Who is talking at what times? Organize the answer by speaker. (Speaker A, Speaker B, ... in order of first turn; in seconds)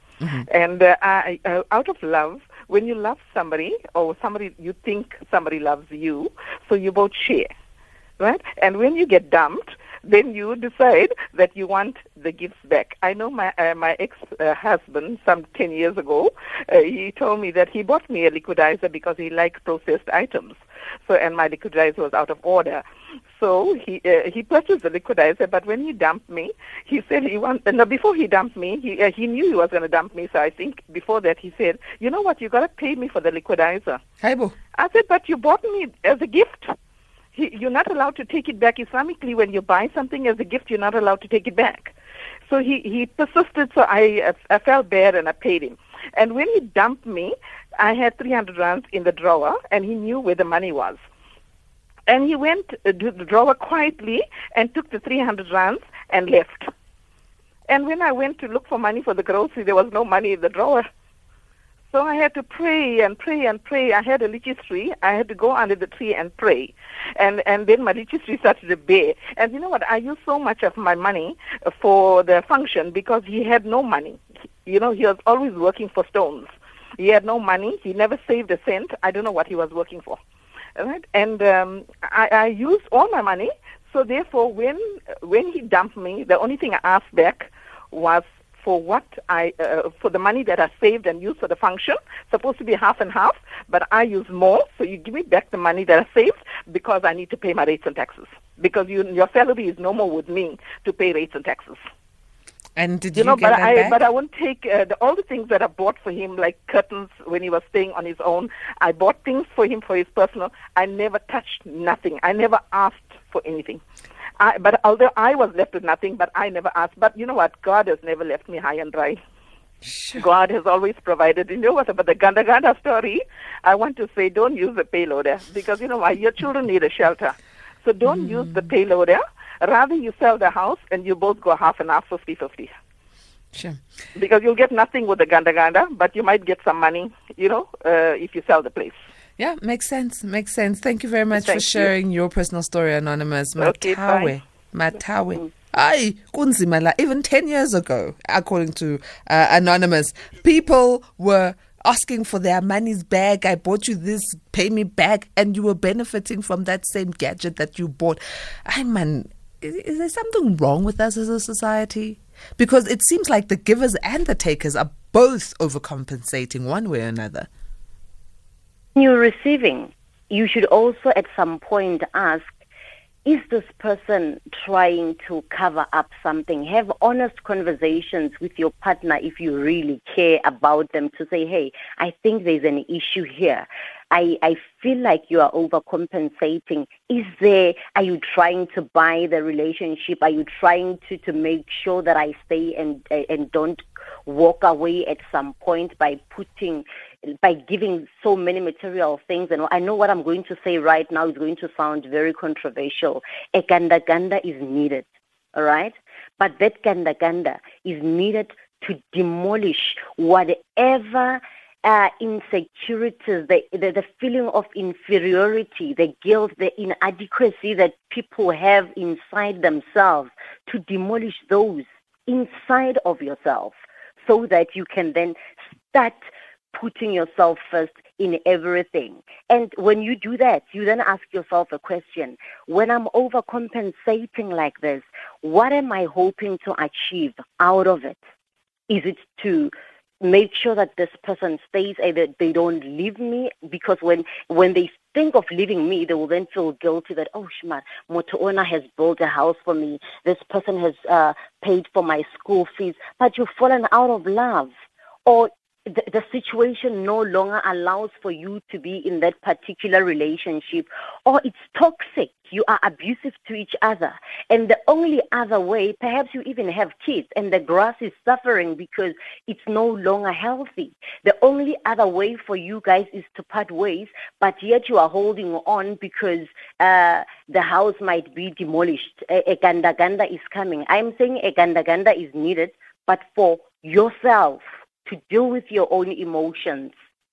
Speaker A: 0.2-0.5, 34.2-34.5, 102.8-104.0, 119.8-120.2, 128.1-128.7, 133.5-133.8, 139.4-167.5
Speaker B: 0.5-7.5, 8.2-34.0, 34.8-36.7, 37.3-41.9, 42.5-51.0, 52.1-56.7, 57.7-60.8, 61.9-80.2, 80.8-101.8, 103.1-113.8, 114.4-119.2, 120.1-132.7, 134.1-139.0, 141.4-141.9, 143.6-144.3
Speaker C: 168.9-172.5, 173.2-225.4, 225.9-226.2, 226.7-238.2, 238.9-254.7, 255.2-286.9